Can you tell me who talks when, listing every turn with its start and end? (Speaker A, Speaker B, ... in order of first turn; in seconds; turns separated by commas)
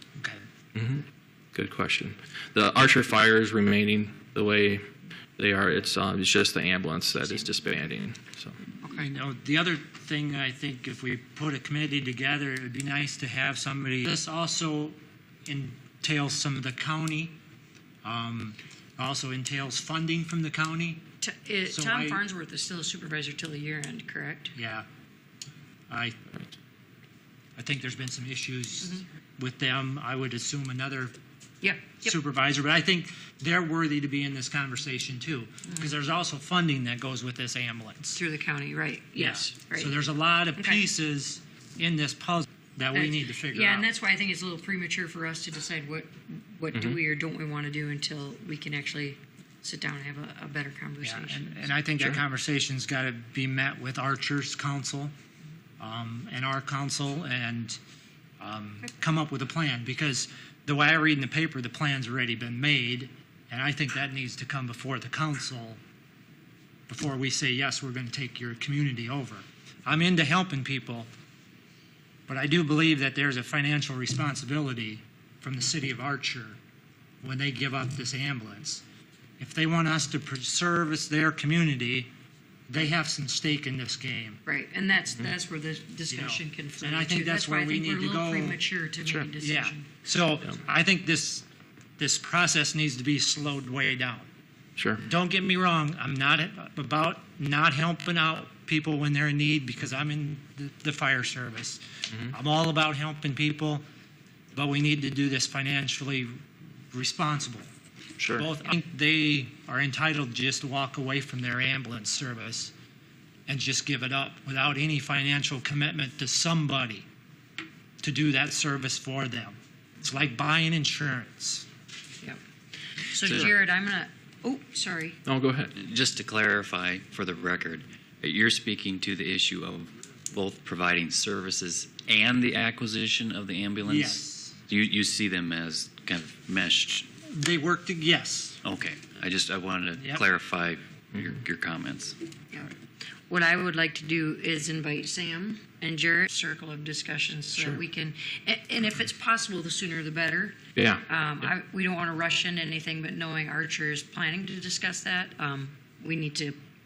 Speaker A: 0.7-1.0, Speaker A: 1.5-4.8, Speaker A: 5.4-8.6, Speaker B: 8.8-9.1, Speaker C: 8.9-17.3, Speaker C: 18.0-21.0, Speaker B: 21.2-24.5, Speaker C: 21.6-22.2, Speaker C: 24.6-24.9, Speaker C: 25.9-26.5, Speaker C: 27.6-31.1, Speaker B: 31.6-32.1, Speaker C: 32.0-38.2, Speaker B: 38.1-40.0, Speaker C: 39.2-43.9, Speaker B: 40.5-40.8, Speaker B: 42.9-51.7, Speaker C: 51.0-55.1, Speaker C: 55.8-57.8, Speaker C: 58.4-65.8, Speaker C: 66.9-71.1, Speaker C: 72.3-76.6, Speaker C: 77.2-78.8, Speaker C: 79.4-82.1, Speaker C: 82.7-84.4, Speaker B: 84.5-89.9, Speaker C: 86.1-88.6, Speaker C: 89.4-91.5, Speaker C: 92.0-94.3, Speaker A: 94.8-95.0, Speaker C: 95.0-103.8, Speaker C: 104.5-106.3, Speaker C: 106.9-107.7, Speaker C: 108.3-112.7, Speaker C: 113.5-117.0, Speaker C: 118.0-121.7, Speaker B: 123.1-125.2, Speaker A: 125.2-125.7, Speaker D: 125.7-137.1, Speaker C: 133.8-134.6, Speaker C: 137.3-138.6, Speaker D: 138.6-142.2, Speaker C: 140.0-140.2, Speaker B: 143.3-156.6, Speaker A: 150.8-151.5